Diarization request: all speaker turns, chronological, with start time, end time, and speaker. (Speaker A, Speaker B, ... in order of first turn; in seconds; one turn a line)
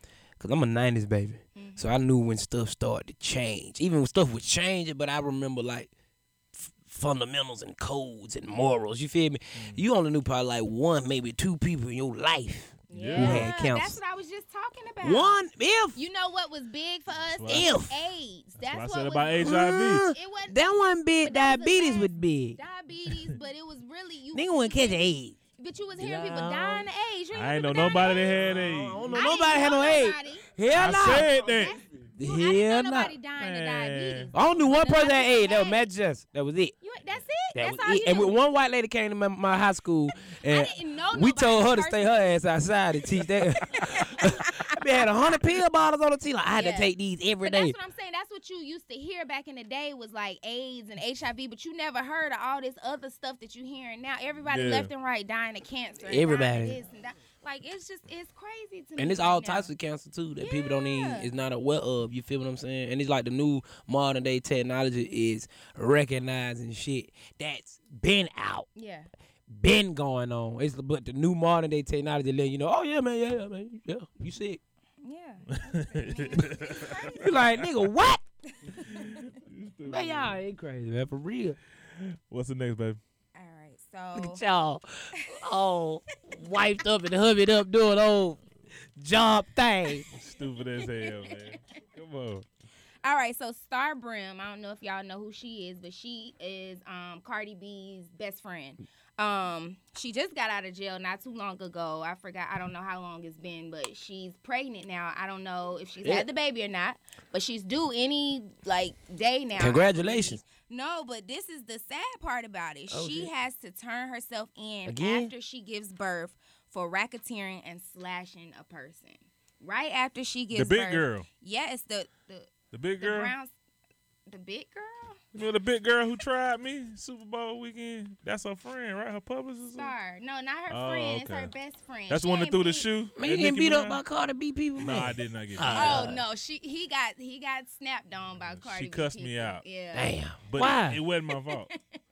Speaker A: 0.4-5.9
Speaker B: 1.6-1.9
Speaker A: 6.5-14.0
Speaker C: 9.6-9.8
Speaker B: 12.9-15.4
Speaker C: 12.9-13.5
Speaker A: 15.0-16.0
Speaker B: 15.9-28.6
Speaker C: 17.2-17.7
Speaker A: 17.5-18.0
Speaker C: 18.6-20.0
Speaker A: 19.4-22.6
Speaker A: 24.3-25.4
Speaker A: 26.0-26.9
Speaker C: 27.3-29.1
Speaker A: 28.4-31.3
Speaker B: 29.1-35.9
Speaker C: 30.7-31.8
Speaker A: 32.2-33.1
Speaker C: 33.4-34.3
Speaker A: 34.3-36.8
Speaker B: 36.8-38.4
Speaker A: 37.5-47.8
Speaker B: 40.5-42.4
Speaker B: 43.7-44.9
Speaker B: 46.5-46.9
Speaker B: 47.4-59.7
Speaker C: 54.5-54.9
Speaker A: 56.1-56.8
Speaker A: 59.0-68.7
Speaker B: 60.4-61.3
Speaker B: 68.8-69.1
Speaker A: 69.5-74.6
Speaker B: 75.0-77.3
Speaker C: 75.6-77.6
Speaker A: 77.0-78.2
Speaker B: 78.6-79.3
Speaker C: 78.8-80.4
Speaker A: 79.9-81.6
Speaker C: 82.0-83.0
Speaker B: 83.4-84.4
Speaker A: 84.1-88.4
Speaker A: 89.0-90.0
Speaker C: 90.1-92.5
Speaker B: 90.8-91.6
Speaker B: 93.0-123.5
Speaker A: 109.6-110.4
Speaker A: 112.9-113.3
Speaker A: 114.9-115.3
Speaker C: 120.5-121.2
Speaker C: 122.7-123.3
Speaker B: 124.3-125.2
Speaker C: 125.3-129.9
Speaker B: 129.8-132.9
Speaker C: 130.7-131.5
Speaker C: 132.1-134.0
Speaker A: 133.2-136.2
Speaker C: 134.8-136.2
Speaker B: 135.7-140.2
Speaker C: 138.5-139.6
Speaker A: 139.9-141.0
Speaker C: 140.5-141.7
Speaker B: 141.5-141.8